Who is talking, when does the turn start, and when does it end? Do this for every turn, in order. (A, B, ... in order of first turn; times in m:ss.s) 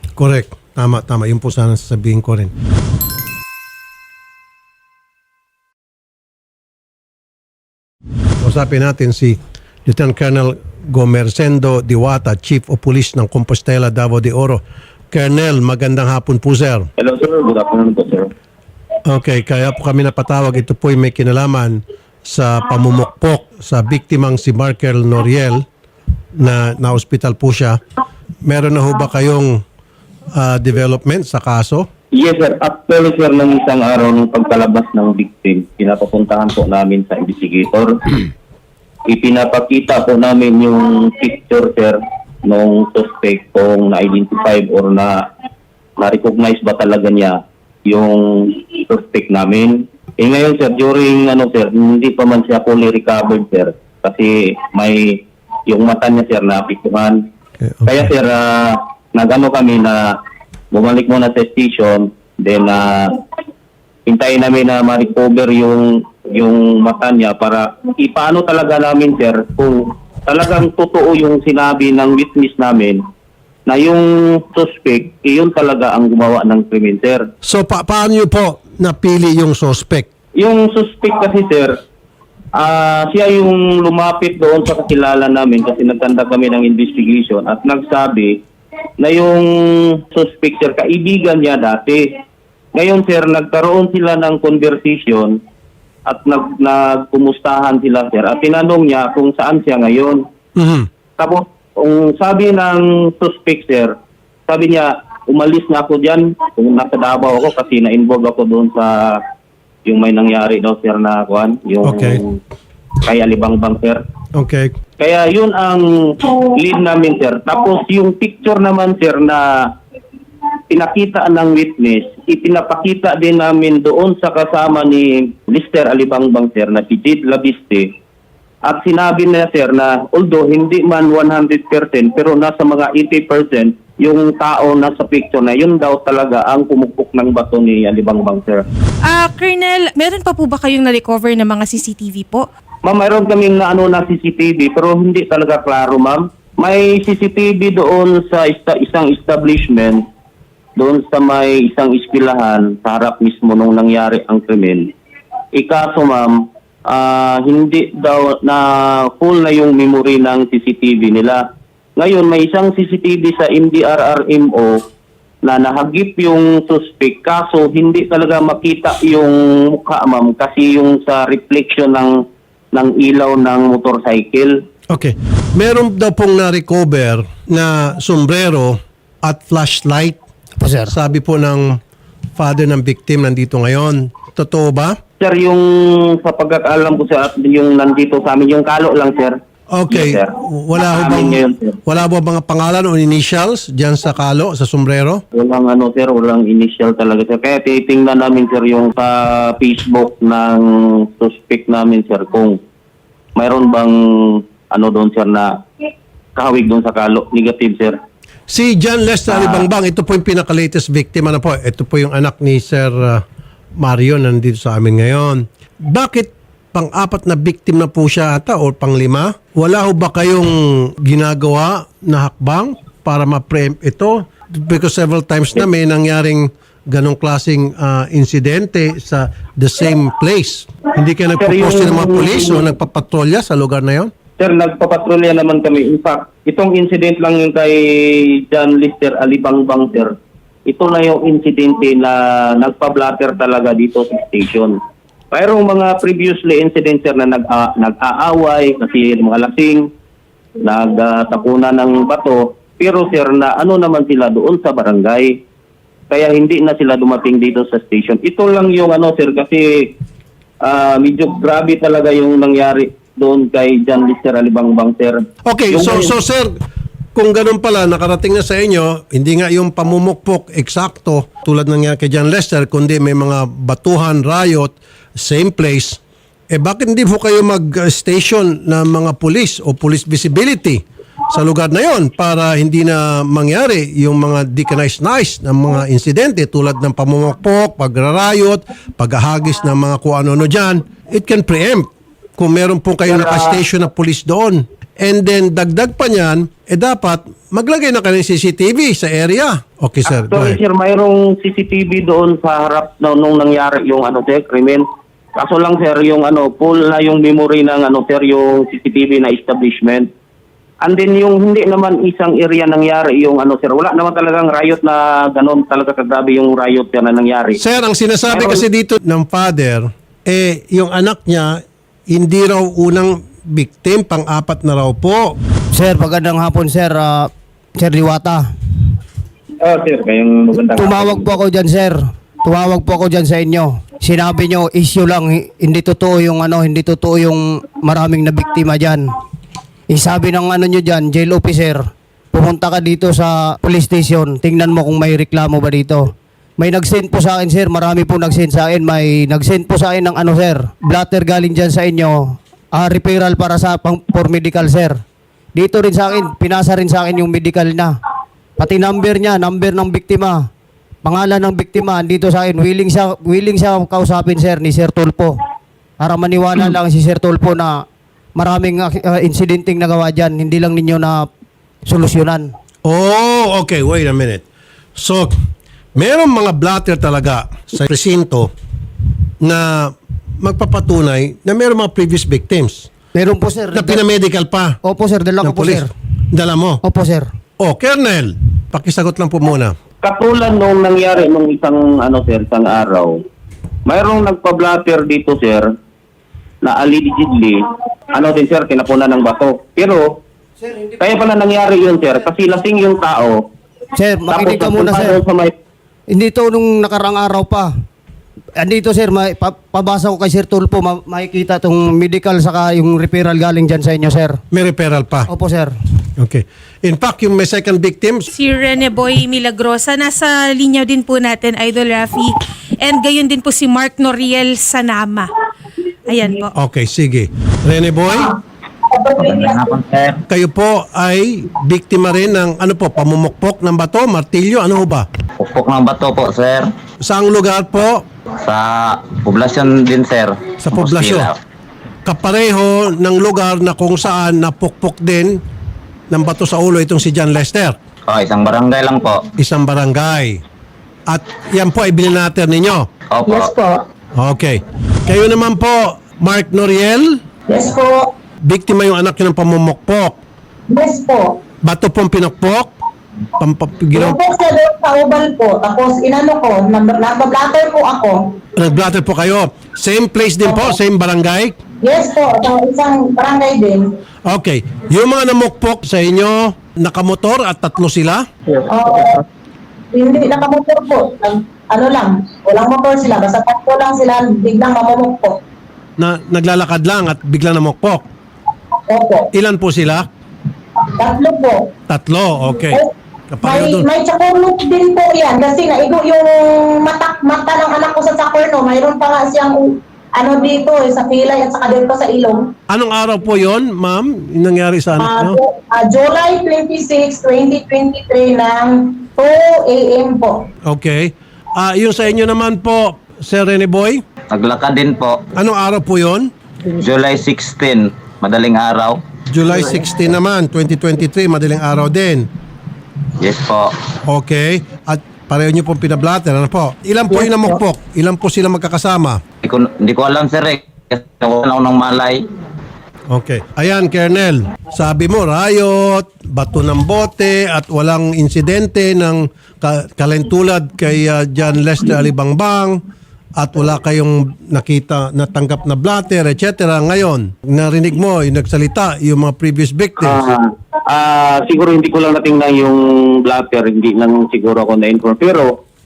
0:00.2-0:02.5 A
0:08.4-0:16.9 A
0:17.0-0:18.3 B
0:19.0-0:25.7 A
0:26.3-0:27.8 A
0:28.4-0:29.6 A
0:30.3-0:31.9 A
0:32.1-0:38.0 B
0:39.1-0:45.3 B
0:46.0-0:57.3 B
0:57.6-0:58.1 A
0:57.8-1:00.2 B
1:00.7-1:03.2 B
1:04.1-1:13.0 B
1:13.7-1:17.3 B
1:17.4-1:20.1 A
1:20.4-1:21.8 B
1:22.5-1:28.4 B
1:29.0-1:32.2 B
1:32.7-1:35.4 B
1:36.0-1:40.3 B
1:40.5-1:40.9 A
1:41.2-1:44.0 B
1:44.5-1:49.2 B
1:49.8-1:52.4 B
1:51.8-1:52.2 A
1:53.0-1:54.0 B
1:54.3-1:54.8 A
1:55.0-1:59.7 B
2:00.7-2:07.9 B
2:08.6-2:18.7 B
2:19.0-2:22.5 C
2:22.8-2:30.0 B
2:30.8-2:34.9 B
2:35.5-2:41.4 B
2:42.0-2:44.8 B
2:45.4-2:54.6 B
2:54.9-3:00.2 A
3:00.6-3:01.0 D
3:00.9-3:01.8 A
3:02.4-3:05.0 A
3:05.2-3:09.4 B
3:09.7-3:15.2 A
3:09.9-3:11.8 B
3:15.3-3:22.6 B
3:23.4-3:25.6 B
3:26.3-3:28.0 B
3:28.5-3:33.2 A
3:29.3-3:29.7 B
3:33.8-3:54.1 A
3:51.4-3:52.6 B
3:54.4-4:04.8 B
4:05.3-4:09.9 B
4:10.6-4:15.4 B
4:16.1-4:19.9 B
4:20.6-4:26.1 B
4:25.4-4:26.5 A
4:27.1-5:00.6 A
4:53.1-4:53.6 B
5:00.0-5:10.1 B
5:10.8-5:17.6 B
5:17.6-5:25.4 A
5:18.3-5:18.6 B
5:25.7-5:28.5 D
5:29.6-5:31.3 B
5:30.8-5:39.1 D
5:39.9-5:55.0 D
5:55.6-5:58.0 D
5:58.6-6:00.5 D
6:01.0-6:05.4 D
6:06.0-6:07.8 D
6:08.4-6:11.3 D
6:11.9-6:12.5 D
6:12.8-6:14.4 A
6:15.0-6:15.4 A
6:16.0-6:18.5 A
6:19.4-6:22.9 A
6:23.1-6:24.0 D
6:23.7-6:24.8 A
6:24.8-6:25.9 D
6:25.4-6:26.8 A
6:26.8-6:27.3 D
6:27.6-6:29.8 A
6:30.0-6:33.2 B
6:33.9-6:35.8 B
6:36.6-6:37.6 B
6:38.1-6:40.2 B
6:40.6-6:41.0 D
6:41.0-6:43.4 B
6:44.0-6:45.2 D
6:44.3-6:45.6 B
6:46.1-6:47.7 D
6:48.6-6:54.4 D
6:54.5-6:55.3 A
6:55.3-6:55.7 D
6:56.2-6:58.3 A
6:58.3-7:05.3 C
7:06.1-7:06.5 C
7:06.5-7:08.3 A
7:08.9-7:09.8 E
7:09.2-7:10.2 F
7:10.3-7:15.1 A
7:15.4-7:16.7 F
7:17.0-7:18.1 A
7:18.4-7:21.4 F
7:20.6-7:21.3 A
7:22.0-7:25.4 A
7:26.1-7:27.8 A
7:28.0-7:29.3 F
7:29.4-7:30.4 A
7:31.1-7:32.9 A
7:33.1-7:33.5 F
7:33.3-7:33.8 E
7:34.2-7:37.2 A
7:37.5-7:38.1 E
7:38.4-7:40.2 A
7:40.7-7:41.4 E
7:41.6-7:42.7 A
7:43.4-7:44.2 A
7:43.9-7:48.4 E
7:48.6-7:51.6 A
7:50.5-7:50.7 E
7:51.8-7:53.9 E
7:54.2-7:58.3 A
7:58.6-7:59.2 E
7:59.9-8:05.4 E
8:06.0-8:08.1 A
8:08.9-8:09.3 E
8:09.3-8:10.1 A
8:11.0-8:11.7 E
8:11.9-8:12.8 A
8:13.3-8:13.9 A
8:13.4-8:22.5 E
8:22.7-8:25.4 A
8:25.0-8:30.4 E
8:30.6-8:34.0 A
8:34.3-8:35.2 F
8:35.3-8:36.3 A
8:36.7-8:39.0 F
8:39.3-8:42.3 A
8:43.2-8:43.7 F
8:44.0-8:49.2 A
8:49.4-8:52.2 F
8:53.1-9:02.8 A
9:03.4-9:10.2 A
9:10.0-9:15.6 B